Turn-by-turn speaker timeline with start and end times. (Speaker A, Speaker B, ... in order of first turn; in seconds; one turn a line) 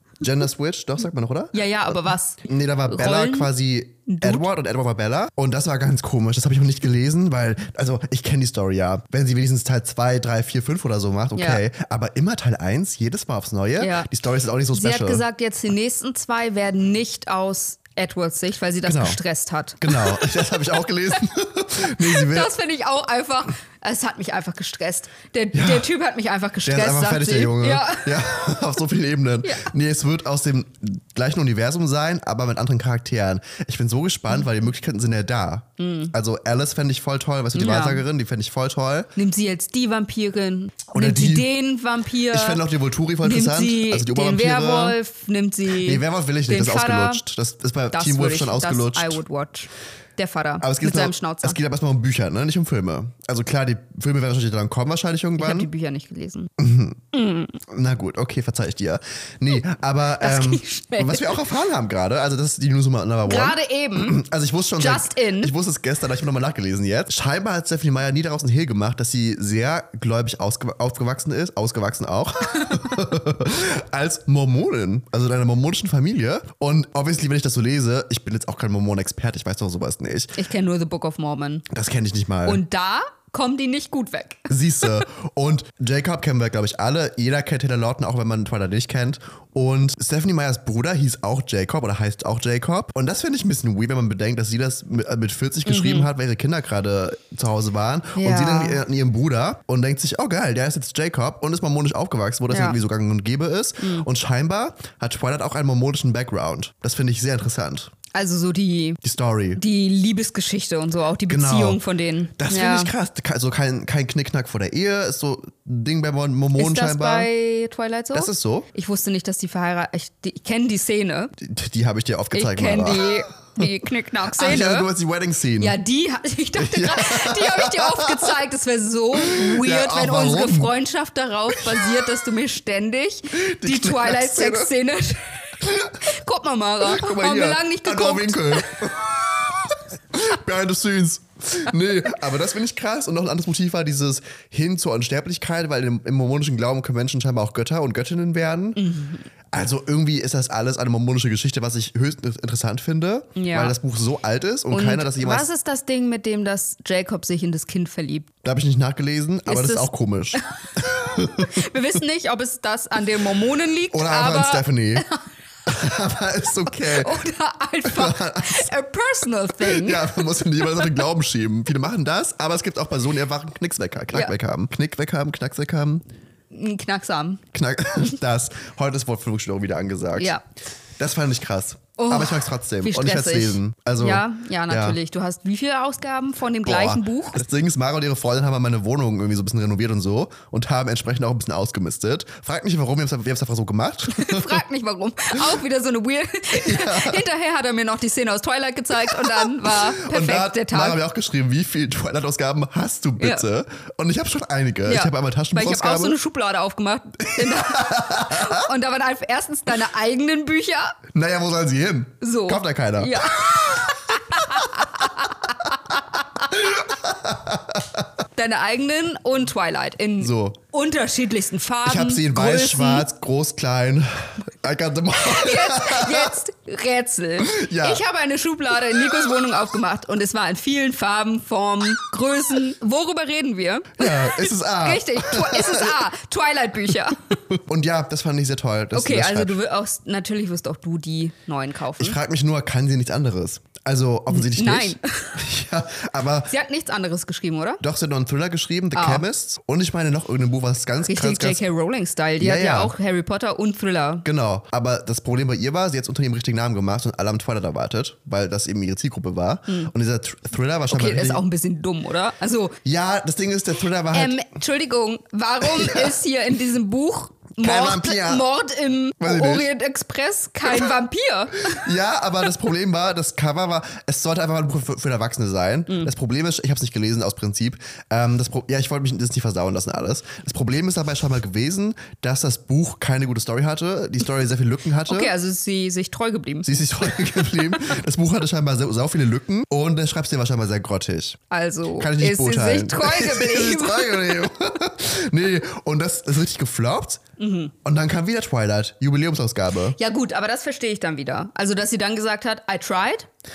Speaker A: 0.2-15.2
Speaker B: 1.5-3.5
Speaker B: 4.1-4.5
Speaker B: 11.3-11.6
Speaker B: 13.8-14.1
Speaker B: 14.7-20.5
Speaker A: 18.8-19.2
Speaker A: 19.8-22.5
Speaker B: 22.0-28.3
Speaker A: 25.5-25.9
Speaker A: 26.6-39.1
Speaker B: 29.4-29.7
Speaker B: 35.8-36.1
Speaker B: 37.5-38.0
Speaker B: 39.1-42.6
Speaker A: 40.9-41.5
Speaker A: 42.3-45.0
Speaker B: 43.2-47.2
Speaker A: 45.7-49.2
Speaker B: 47.9-51.6
Speaker A: 50.6-55.7
Speaker B: 55.4-56.5
Speaker A: 56.6-57.0
Speaker B: 57.1-57.6
Speaker A: 57.6-80.4
Speaker B: 60.2-61.4
Speaker B: 63.2-64.2
Speaker B: 64.8-65.5
Speaker B: 80.4-81.7
Speaker A: 81.7-82.6
Speaker B: 82.5-85.0
Speaker A: 84.5-107.9
Speaker B: 95.7-96.1
Speaker B: 98.2-98.8
Speaker B: 102.5-102.8
Speaker B: 103.8-104.1
Speaker B: 108.1-109.0
Speaker A: 109.0-109.6
Speaker B: 109.5-112.9
Speaker A: 111.3-111.8
Speaker A: 112.4-117.3
Speaker B: 116.6-121.3
Speaker A: 118.1-118.7
Speaker A: 121.4-123.7
Speaker B: 122.3-124.9
Speaker A: 124.3-125.8
Speaker B: 125.6-138.8
Speaker A: 126.6-128.3
Speaker A: 129.2-130.7
Speaker A: 131.5-132.1
Speaker A: 133.3-134.7
Speaker A: 135.6-136.0
Speaker A: 136.8-148.8
Speaker B: 148.8-149.2
Speaker A: 149.5-155.5
Speaker B: 153.4-153.8
Speaker B: 154.7-158.3
Speaker A: 158.4-161.7
Speaker B: 159.5-165.2
Speaker A: 163.9-165.1
Speaker A: 165.7-167.2
Speaker B: 166.7-171.0
Speaker A: 167.8-168.7
Speaker A: 169.6-176.0
Speaker B: 176.5-177.4
Speaker A: 177.5-180.3
Speaker B: 180.2-180.4
Speaker A: 181.0-185.0
Speaker B: 182.0-187.4
Speaker A: 186.6-194.6
Speaker B: 194.1-201.0
Speaker A: 196.5-197.2
Speaker A: 199.1-206.2
Speaker B: 203.2-203.4
Speaker B: 204.9-211.0
Speaker A: 207.3-208.7
Speaker A: 211.1-215.3
Speaker B: 212.2-216.6
Speaker A: 216.5-218.1
Speaker B: 218.4-223.1
Speaker A: 220.2-220.6
Speaker A: 221.8-226.4
Speaker B: 225.2-237.4
Speaker A: 227.4-228.0
Speaker A: 228.9-229.2
Speaker A: 234.0-236.1
Speaker A: 237.5-239.6
Speaker B: 238.9-242.2
Speaker A: 242.0-246.5
Speaker B: 244.3-245.4
Speaker B: 246.5-247.8
Speaker A: 247.8-251.6
Speaker B: 248.9-249.2
Speaker B: 251.0-254.3
Speaker A: 252.4-252.9
Speaker A: 254.2-261.4
Speaker B: 260.9-262.8
Speaker A: 262.9-264.4
Speaker B: 264.1-271.9
Speaker A: 265.6-266.2
Speaker A: 267.6-268.5
Speaker A: 269.2-269.7
Speaker A: 271.7-285.3
Speaker B: 285.1-286.7
Speaker A: 286.6-291.4
Speaker B: 287.2-287.6
Speaker B: 291.5-294.5
Speaker A: 292.0-297.2
Speaker B: 297.4-297.7
Speaker A: 297.8-300.0
Speaker B: 300.0-303.3